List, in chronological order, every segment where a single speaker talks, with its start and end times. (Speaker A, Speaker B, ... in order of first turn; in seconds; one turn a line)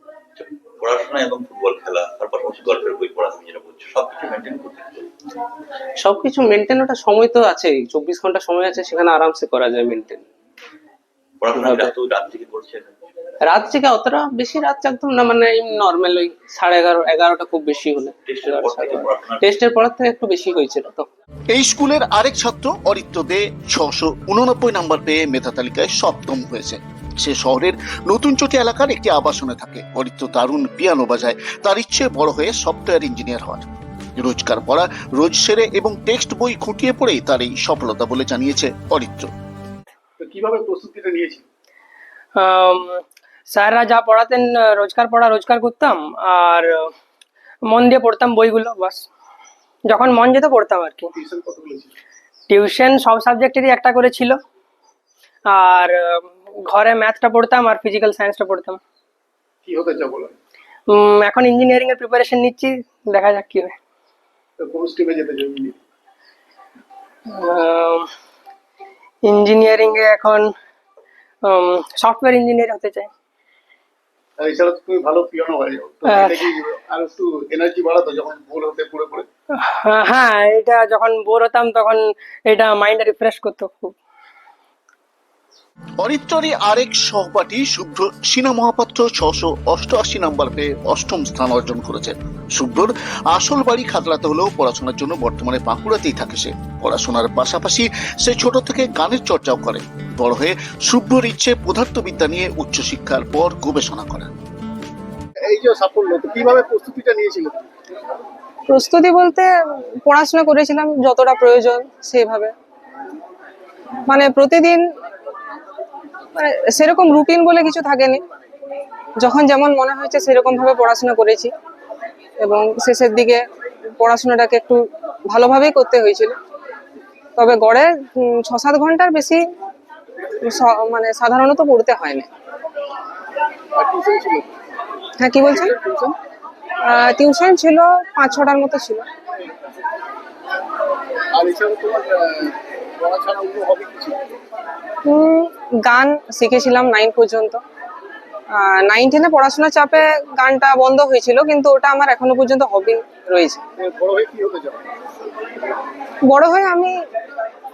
Speaker A: 0.4-5.1
Speaker B: 6.0-10.2
Speaker A: 11.4-12.9
Speaker B: 11.5-11.9
Speaker B: 13.5-21.1
Speaker A: 18.3-19.4
Speaker C: 21.5-33.7
Speaker C: 34.2-39.3
Speaker D: 40.2-41.5
Speaker E: 42.4-46.9
Speaker E: 47.7-49.0
Speaker E: 49.9-51.1
Speaker D: 51.1-51.9
Speaker E: 52.5-54.4
Speaker E: 55.5-58.8
Speaker D: 59.6-60.4
Speaker E: 60.9-63.7
Speaker D: 64.6-65.8
Speaker E: 67.4-68.1
Speaker E: 69.2-70.5
Speaker E: 71.5-73.1
Speaker D: 74.4-79.3
Speaker E: 76.0-76.5
Speaker E: 79.7-83.9
Speaker C: 86.0-104.3
Speaker D: 105.5-107.7
Speaker F: 108.7-109.5
Speaker F: 110.0-112.5
Speaker F: 114.1-114.8
Speaker F: 116.4-118.2
Speaker F: 119.2-121.5
Speaker F: 122.4-123.4
Speaker F: 124.0-126.4
Speaker F: 127.4-129.4
Speaker F: 130.4-132.3
Speaker D: 133.8-134.5
Speaker F: 135.2-135.7
Speaker D: 135.4-136.2
Speaker F: 136.8-139.1
Speaker D: 141.3-144.2
Speaker F: 145.1-147.6
Speaker F: 148.5-153.6
Speaker D: 153.8-154.9
Speaker F: 156.3-156.9